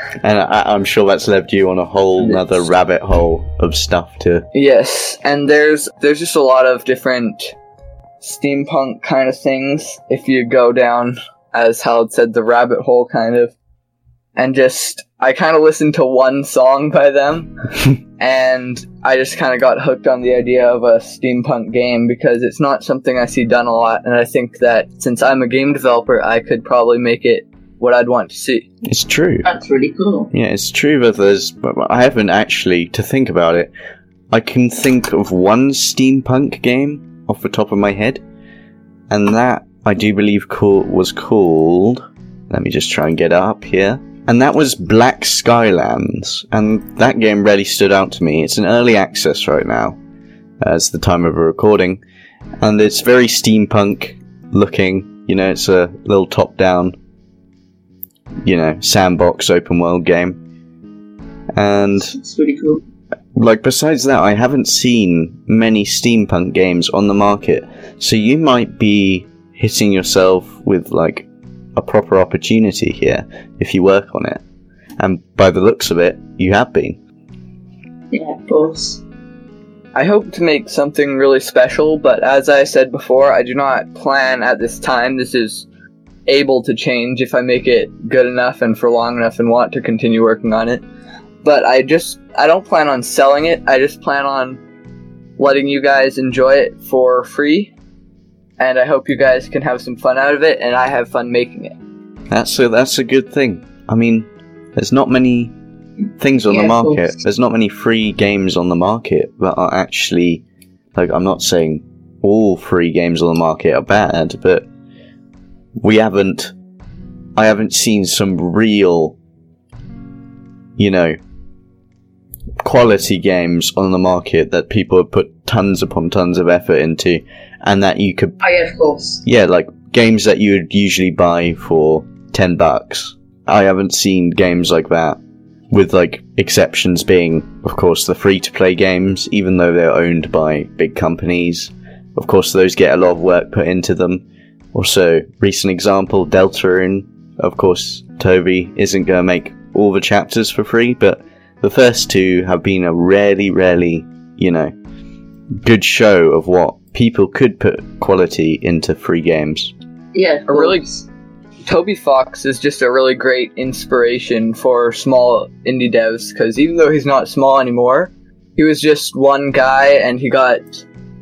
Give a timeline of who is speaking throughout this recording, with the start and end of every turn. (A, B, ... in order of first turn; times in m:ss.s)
0:00.2-0:04.4 A
0:02.2-0:02.6 B
0:04.5-0:07.5 B
0:08.2-0:13.5 B
0:14.4-0:17.5 B
0:18.2-0:28.6 B
0:28.8-0:29.5 A
0:29.4-0:30.3 C
0:30.3-0:33.7 A
0:34.3-0:38.2 A
0:39.1-0:50.0 A
0:50.6-0:52.0 A
0:52.6-0:56.9 A
0:58.4-1:00.4 A
1:01.5-1:02.2 A
1:02.0-1:02.8 C
1:03.3-1:14.4 A
1:15.0-1:17.0 A
1:18.1-1:19.0 C
1:19.9-1:25.6 B
1:26.2-1:30.8 B
1:31.4-1:34.6 B
1:35.4-1:37.7 B
1:38.6-1:41.7 B
1:42.3-1:45.5 A
1:46.2-1:50.4 A
1:46.5-1:47.2 C
1:50.9-1:54.6 A
1:55.8-1:56.5 A
1:57.4-1:59.2 A
2:00.8-2:01.2 A
2:02.6-2:08.4 A
2:08.4-2:09.2 C
2:09.2-2:15.2 A
2:15.7-2:34.7 A
2:35.6-2:39.7 A
2:40.1-2:41.0 C
2:40.5-2:40.8 B
2:41.6-2:50.8 B